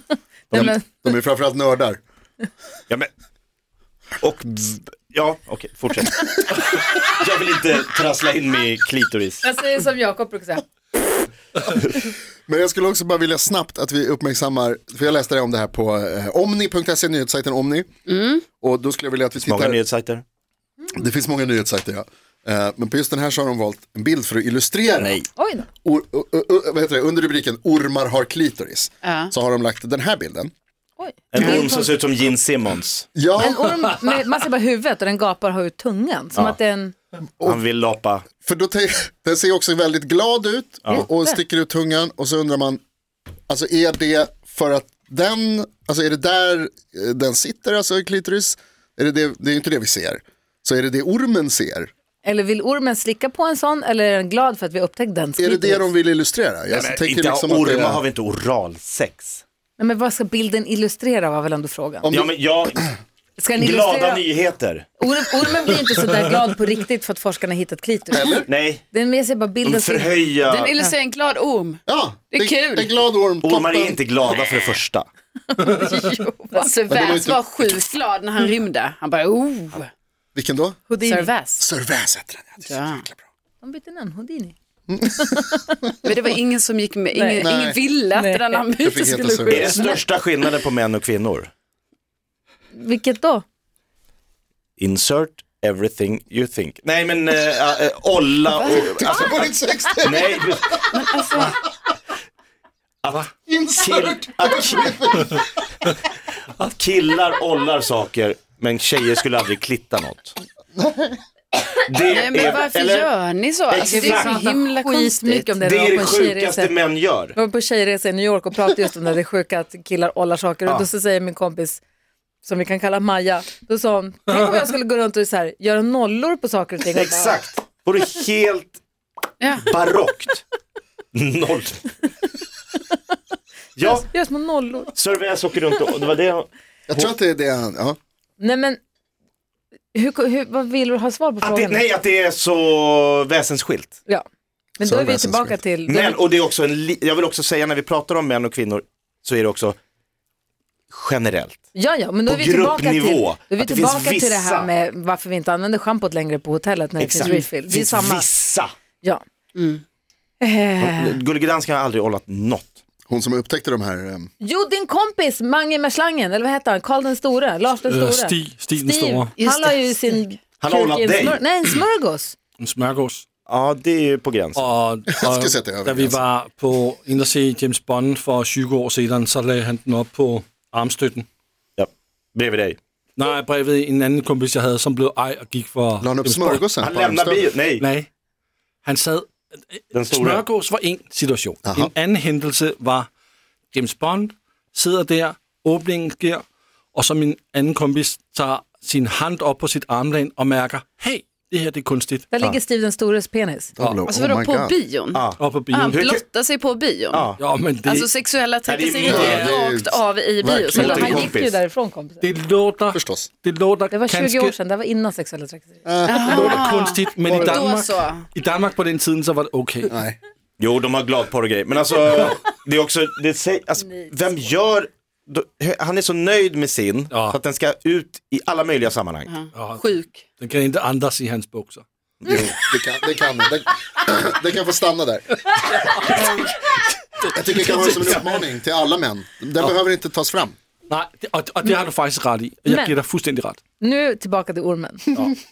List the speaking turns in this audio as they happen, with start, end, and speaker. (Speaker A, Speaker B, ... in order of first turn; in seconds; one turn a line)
Speaker A: 0.5-2.0
Speaker B: 0.5-1.0
Speaker C: 4.2-9.4
Speaker B: 9.4-10.7
Speaker A: 12.5-17.9
Speaker D: 18.1-18.4
Speaker A: 18.5-19.8
Speaker C: 19.4-20.2
Speaker A: 20.9-25.2
Speaker B: 25.4-25.7
Speaker A: 25.8-30.5
Speaker D: 29.0-29.3
Speaker B: 31.0-31.9
Speaker C: 31.3-33.1
Speaker A: 33.1-33.9
Speaker B: 33.4-36.9
Speaker C: 37.4-38.3
Speaker A: 38.4-42.8
Speaker B: 40.9-41.4
Speaker A: 43.5-51.9
Speaker B: 52.2-55.9
Speaker A: 55.4-58.0
Speaker C: 56.7-59.4
Speaker B: 59.8-62.1
Speaker A: 62.0-62.3
Speaker C: 62.1-62.9
Speaker B: 63.4-64.3
Speaker C: 63.5-64.9
Speaker B: 65.0-70.2
Speaker A: 68.1-68.5
Speaker C: 68.5-68.8
Speaker C: 69.6-70.8
Speaker D: 70.4-72.9
Speaker A: 71.8-74.0
Speaker C: 73.4-75.1
Speaker D: 74.4-74.7
Speaker B: 75.6-76.7
Speaker D: 75.6-79.9
Speaker A: 76.9-77.7
Speaker A: 80.3-80.9
Speaker B: 80.9-81.3
Speaker D: 81.0-81.6
Speaker A: 81.6-83.2
Speaker D: 82.6-83.0
Speaker B: 83.6-84.5
Speaker A: 84.9-86.2
Speaker B: 85.2-85.5
Speaker D: 86.0-90.0
Speaker B: 87.1-87.5
Speaker A: 87.4-87.8
Speaker B: 88.1-88.7
Speaker A: 88.8-89.7
Speaker C: 89.5-91.5
Speaker B: 92.7-93.4
Speaker C: 94.8-99.4
Speaker D: 98.7-99.2
Speaker A: 98.8-100.8
Speaker C: 100.0-100.8
Speaker D: 100.9-101.6
Speaker C: 103.0-105.0
Speaker A: 103.5-105.5
Speaker C: 106.6-110.3
Speaker A: 110.7-111.2
Speaker C: 111.9-113.1
Speaker D: 112.0-115.6
Speaker C: 113.7-114.4
Speaker B: 113.8-116.7
Speaker C: 115.6-117.3
Speaker B: 117.3-121.8
Speaker B: 122.4-127.4
Speaker C: 126.9-128.8
Speaker D: 129.4-129.7
Speaker C: 129.6-130.4
Speaker C: 131.1-131.9
Speaker C: 133.8-134.1
Speaker B: 133.8-134.9
Speaker C: 134.9-137.1
Speaker A: 136.9-138.0
Speaker B: 138.4-138.8
Speaker B: 139.9-141.9
Speaker C: 141.4-143.9
Speaker B: 144.8-146.2
Speaker A: 144.8-145.6
Speaker C: 145.8-149.8
Speaker C: 150.9-151.6
Speaker B: 151.7-158.3
Speaker C: 152.2-154.7
Speaker C: 157.0-158.7
Speaker D: 159.5-159.8
Speaker B: 160.4-161.1
Speaker C: 160.8-162.8
Speaker A: 163.1-164.3
Speaker B: 164.4-172.3
Speaker E: 167.8-169.3
Speaker D: 169.4-170.2
Speaker C: 170.6-171.4
Speaker E: 172.6-173.2
Speaker C: 173.5-174.7
Speaker E: 174.5-181.2
Speaker A: 175.1-176.2
Speaker C: 181.8-182.8
Speaker E: 183.2-186.7
Speaker A: 186.0-187.5
Speaker C: 186.8-187.8
Speaker E: 187.8-188.1
Speaker E: 188.8-193.1
Speaker C: 189.9-190.4
Speaker A: 191.7-191.9
Speaker E: 193.7-196.4
Speaker E: 196.9-202.2
Speaker B: 202.3-203.7
Speaker A: 203.8-204.8
Speaker D: 204.0-207.2
Speaker C: 205.1-206.2
Speaker E: 205.4-206.0
Speaker C: 207.1-207.4
Speaker E: 207.4-208.1
Speaker D: 207.8-211.0
Speaker C: 208.7-209.6
Speaker A: 209.0-211.3
Speaker B: 210.7-212.3
Speaker C: 210.8-211.6
Speaker E: 212.2-214.5
Speaker A: 212.9-213.3
Speaker B: 213.9-215.8
Speaker A: 215.8-216.8
Speaker D: 216.1-218.2
Speaker E: 216.3-219.9
Speaker A: 219.9-220.2
Speaker C: 220.6-229.3
Speaker E: 227.1-227.4
Speaker D: 229.3-230.2
Speaker E: 229.5-231.8
Speaker A: 232.3-235.5
Speaker E: 235.5-238.4
Speaker A: 237.3-240.6
Speaker E: 240.9-243.6
Speaker B: 242.7-242.9
Speaker B: 243.8-245.2